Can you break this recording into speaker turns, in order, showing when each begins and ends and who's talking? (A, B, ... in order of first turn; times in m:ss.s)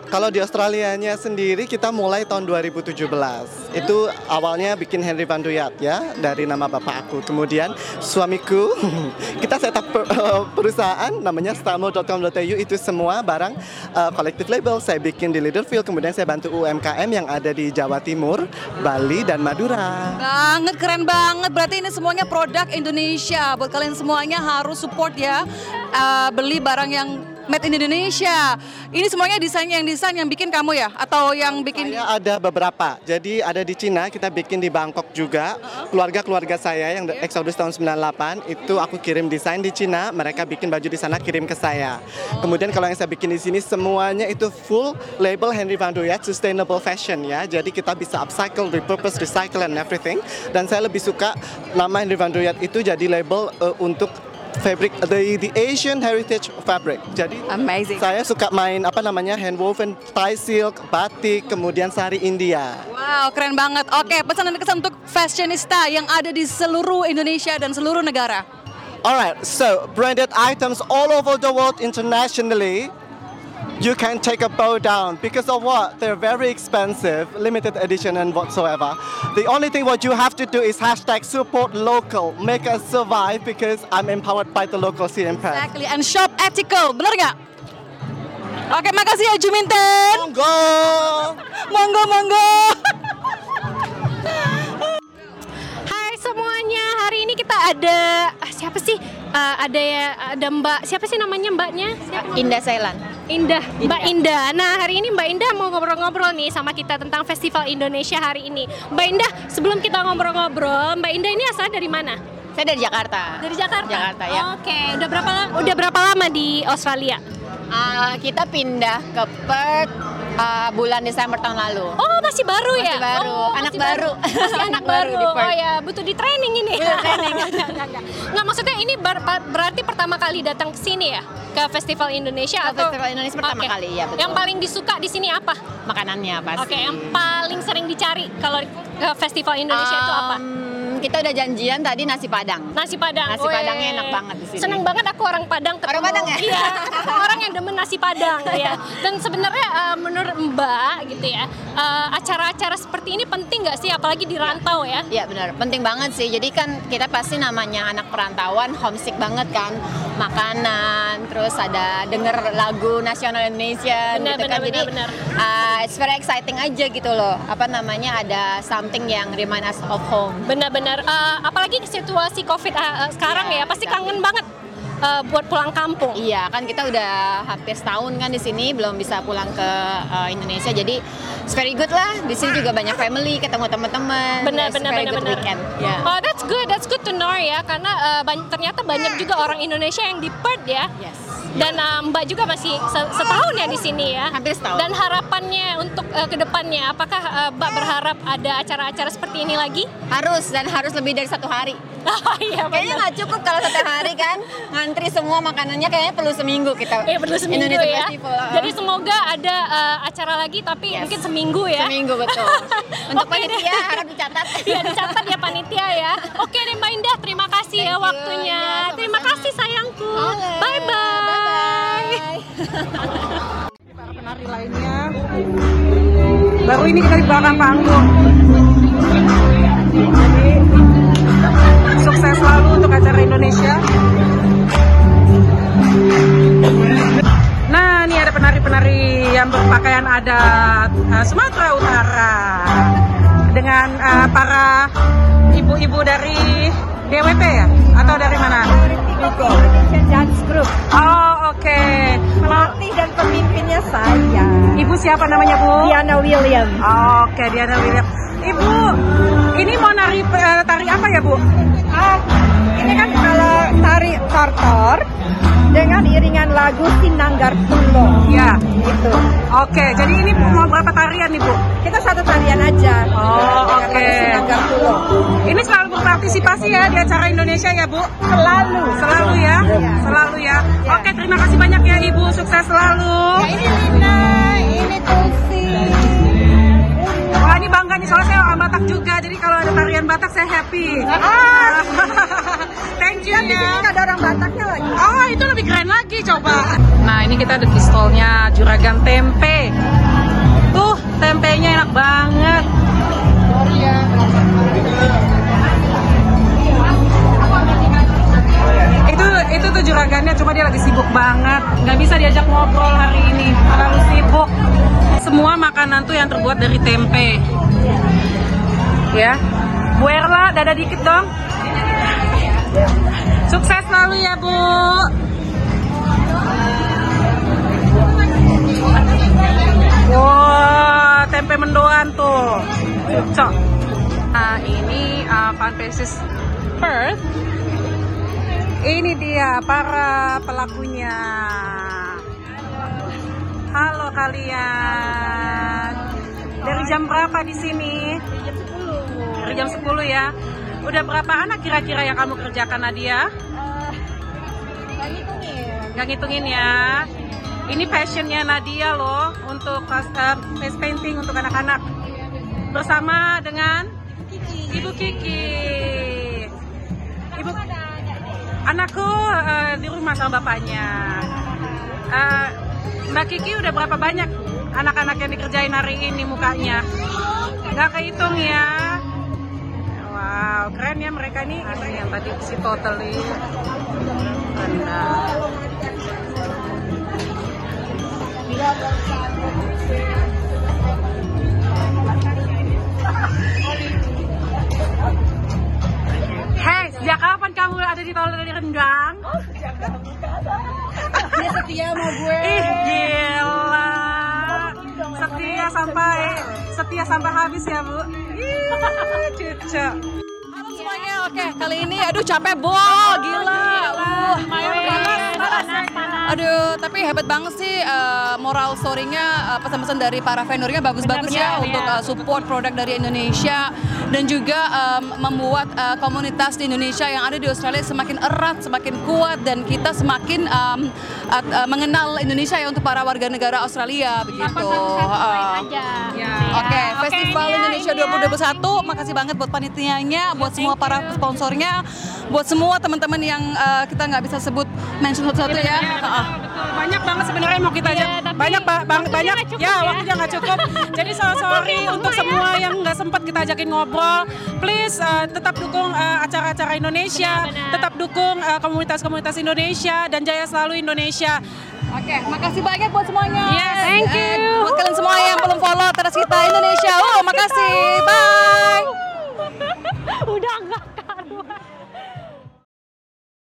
0:00.1-0:20.2 A
0:20.2-0:32.0 B
0:31.5-1:02.8 A
0:57.5-0:58.0 B
1:02.9-1:08.4 B
1:09.0-1:12.9 A
1:13.8-1:25.7 A
1:25.5-1:27.4 B
1:28.7-1:30.3 B
1:30.1-1:31.4 A
1:31.7-1:32.8 B
1:35.9-1:42.6 C
1:42.2-1:43.0 D
1:43.3-1:52.2 C
1:43.8-1:44.1 D
1:52.6-1:54.5 D
1:53.4-1:57.2 C
1:57.7-2:02.0 D
2:02.0-2:15.6 C
2:02.7-2:05.6 D
2:06.8-2:07.8 D
2:12.6-2:14.5 D
2:15.9-2:17.1 D
2:16.6-2:20.4 C
2:19.7-2:22.7 D
2:22.7-2:35.1 C
2:23.3-2:24.8 D
2:25.9-2:27.4 D
2:28.4-2:28.8 D
2:35.1-2:50.5 D
2:44.1-2:45.2 C
2:50.5-2:54.5 C
2:53.3-2:54.2 D
2:55.0-2:56.2 C
2:56.2-3:06.1 D
3:04.4-3:05.5 C
3:06.0-3:10.9 C
3:11.0-3:11.7 D
3:11.6-3:19.9 C
3:14.3-3:14.9 D
3:20.1-3:21.8 D
3:22.1-3:24.2 C
3:22.7-3:28.8 D
3:27.0-3:42.2 C
3:30.9-3:35.4 D
3:37.8-3:39.5 D
3:40.2-3:42.6 D
3:44.0-3:45.1 E
3:46.6-3:48.1 E
3:51.9-3:53.8 E
3:57.7-4:02.9 E
4:03.5-4:04.9 E
4:05.5-4:08.7 E
4:08.0-4:10.8 F
4:10.9-4:12.7 E
4:12.4-4:14.9 F
4:14.8-4:16.0 E
4:15.8-4:16.8 F
4:16.8-4:19.0 E
4:19.6-4:21.4 E
4:21.9-4:25.0 F
4:25.7-4:29.2 F
4:28.2-4:28.6 E
4:29.5-4:31.6 E
4:31.8-4:35.1 F
4:33.1-4:34.6 E
4:35.5-4:38.1 E
4:38.2-4:40.2 F
4:38.9-4:43.6 E
4:40.8-4:41.1 F
4:43.4-4:46.2 F
4:47.0-4:47.7 F
4:47.4-4:53.9 E
4:51.1-4:52.2 F
4:53.2-4:54.9 F
4:55.0-4:59.7 E
5:00.7-5:02.7 E
5:09.1-5:14.5 E
5:15.2-5:17.4 E
5:19.1-5:19.4 E
5:20.0-5:21.3 E
5:23.5-5:25.1 E
5:30.1-5:33.6 E
5:34.3-5:36.2 E
5:36.8-5:37.2 E
5:38.8-5:42.2 E
5:43.7-5:46.0 E
5:45.0-5:45.3 F
5:46.6-5:48.2 E
5:46.6-5:47.0 F
5:48.4-5:49.9 F
5:49.4-5:50.3 E
5:50.8-5:53.3 E
5:53.6-5:54.0 F
5:55.0-5:56.0 F
5:55.9-5:57.1 E
5:57.7-6:01.9 E
6:02.7-6:03.9 E
6:04.7-6:06.5 E
6:07.4-6:07.6 E
6:08.7-6:11.3 E
6:12.1-6:12.6 E
6:13.1-6:16.8 E
6:17.7-6:19.0 E
6:20.0-6:23.4 E
6:24.5-6:25.4 E
6:36.6-6:39.3 E
6:41.6-6:42.8 F
6:42.3-6:50.0 E
6:45.2-6:46.2 F
6:50.5-6:55.7 B
6:50.7-6:51.1 C
6:52.9-6:56.2 E
6:54.5-6:56.4 C
6:56.3-7:15.7 B
7:01.0-7:02.0 C
7:01.2-7:01.9 E
7:14.4-7:19.2 C
7:16.2-7:16.9 E
7:16.5-7:26.3 B
7:20.3-7:21.2 C
7:25.4-7:41.4 E
7:27.8-7:32.6 C
7:37.1-7:37.9 C
7:41.9-7:48.9 B
7:43.5-7:44.1 E
7:43.6-7:45.6 C
7:46.2-7:51.6 C